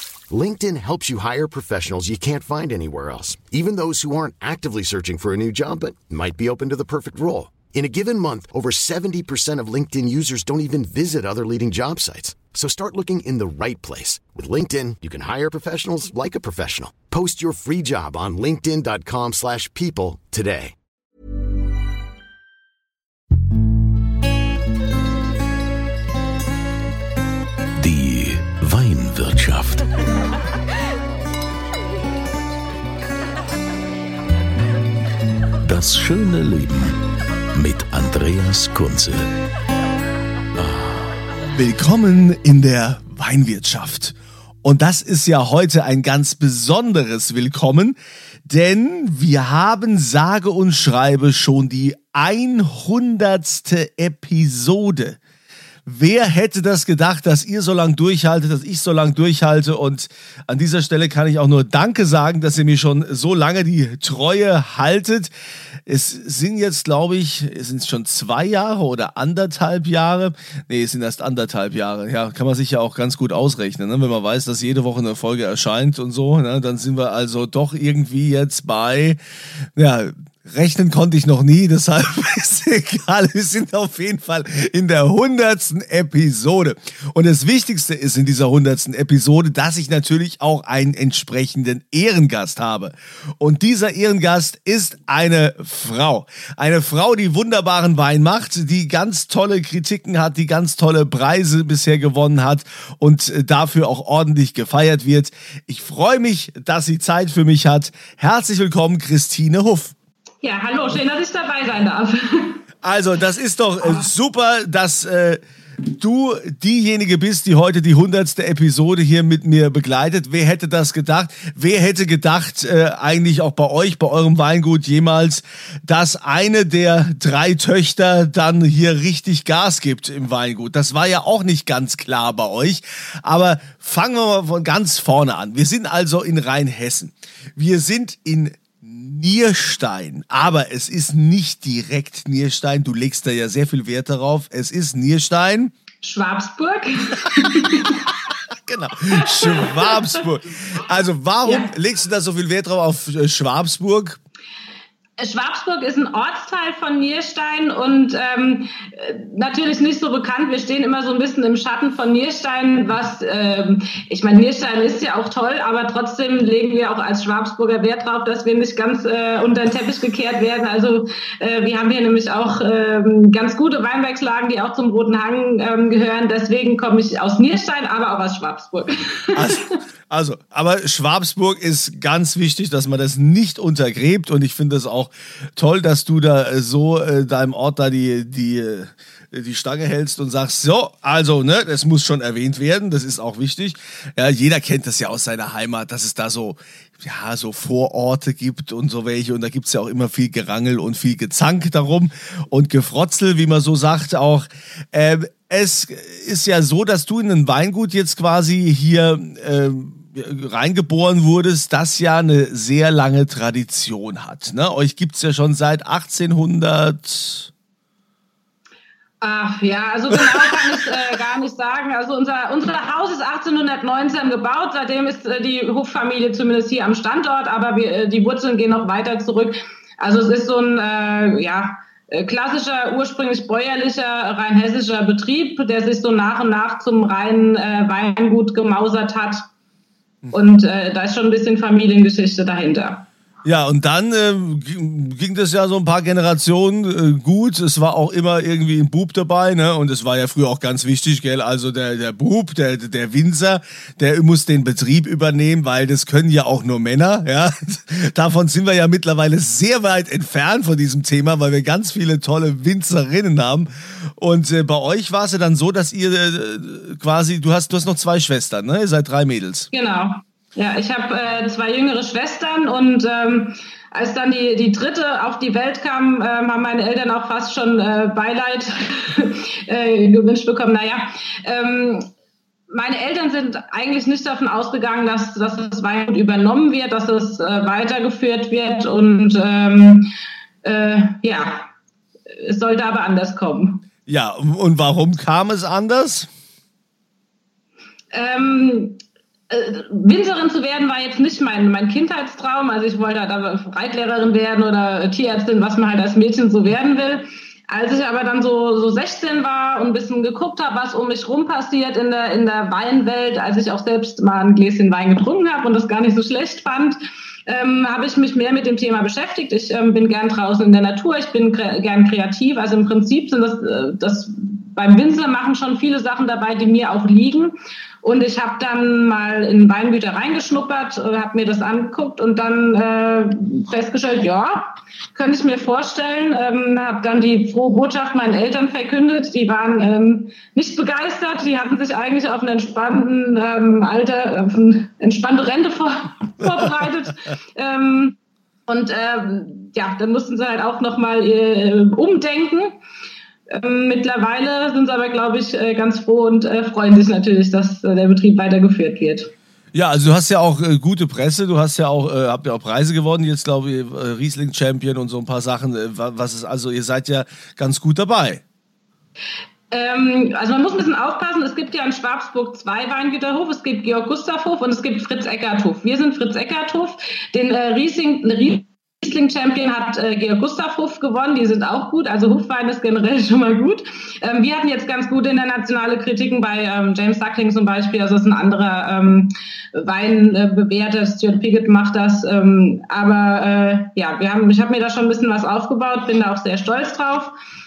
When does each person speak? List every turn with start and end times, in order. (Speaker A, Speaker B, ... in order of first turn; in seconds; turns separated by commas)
Speaker A: 0.3-20.8, Speaker B: 27.8-29.9, Speaker B: 35.6-37.0, Speaker B: 37.5-39.3, Speaker B: 40.5-41.1, Speaker C: 41.5-55.2, Speaker C: 55.9-65.3, Speaker C: 65.9-79.2, Speaker C: 79.8-109.9, Speaker D: 110.4-112.6, Speaker C: 112.8-145.7, Speaker D: 146.0-148.0, Speaker C: 148.5-154.2, Speaker D: 149.4-150.2, Speaker D: 151.4-151.7, Speaker D: 155.2-179.6, Speaker C: 179.3-217.5, Speaker D: 219.2-239.5, Speaker D: 240.3-243.1, Speaker C: 243.4-269.7, Speaker D: 269.7-282.1, Speaker D: 282.7-290.1, Speaker D: 290.6-291.7, Speaker D: 292.4-293.9, Speaker C: 294.1-296.3, Speaker D: 298.1-352.8, Speaker D: 353.5-359.3, Speaker C: 359.7-368.4, Speaker D: 369.7-397.3